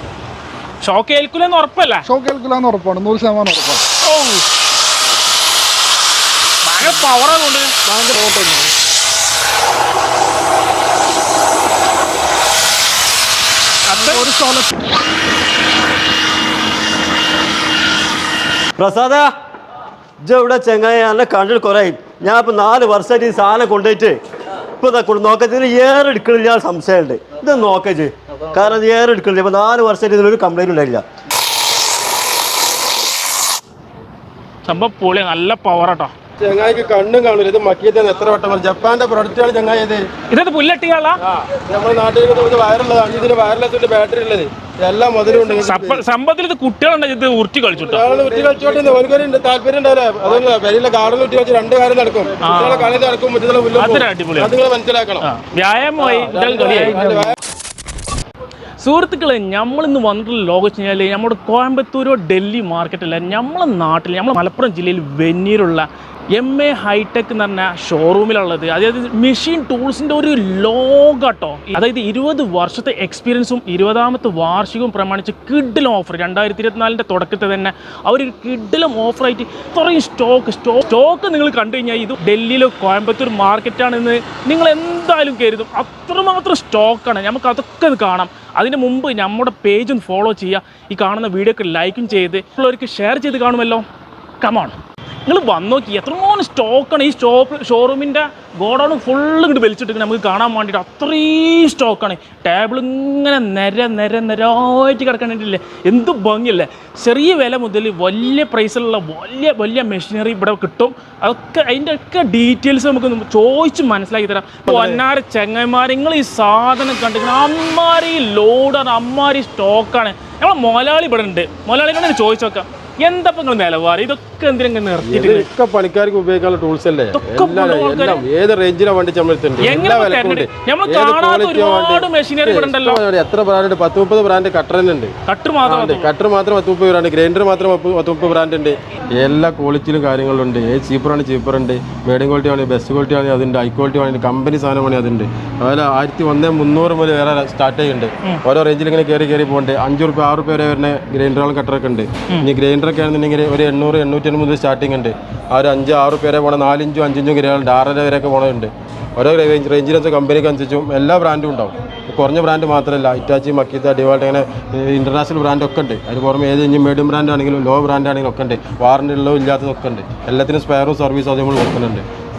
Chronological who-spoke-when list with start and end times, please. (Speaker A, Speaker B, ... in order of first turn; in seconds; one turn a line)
Speaker A: 0.8-2.0
Speaker B: 2.0-3.8
Speaker A: 4.0-4.4
Speaker A: 6.6-7.7
Speaker B: 7.8-8.7
Speaker A: 13.9-14.2
Speaker B: 13.9-14.7
Speaker C: 18.8-19.3
Speaker C: 20.2-24.2
Speaker C: 24.8-31.0
Speaker A: 34.6-36.1
Speaker D: 36.4-40.1
Speaker A: 40.3-41.2
Speaker D: 41.2-46.0
Speaker A: 45.6-48.0
Speaker D: 47.8-55.3
Speaker A: 52.4-53.0
Speaker A: 53.8-54.6
Speaker A: 55.2-57.3
Speaker D: 56.0-57.4
Speaker A: 58.8-93.8
Speaker A: 94.4-125.5
Speaker D: 114.7-115.0
Speaker D: 125.0-135.1
Speaker A: 127.1-128.2
Speaker A: 129.6-133.0
Speaker A: 135.3-136.1
Speaker D: 135.6-172.1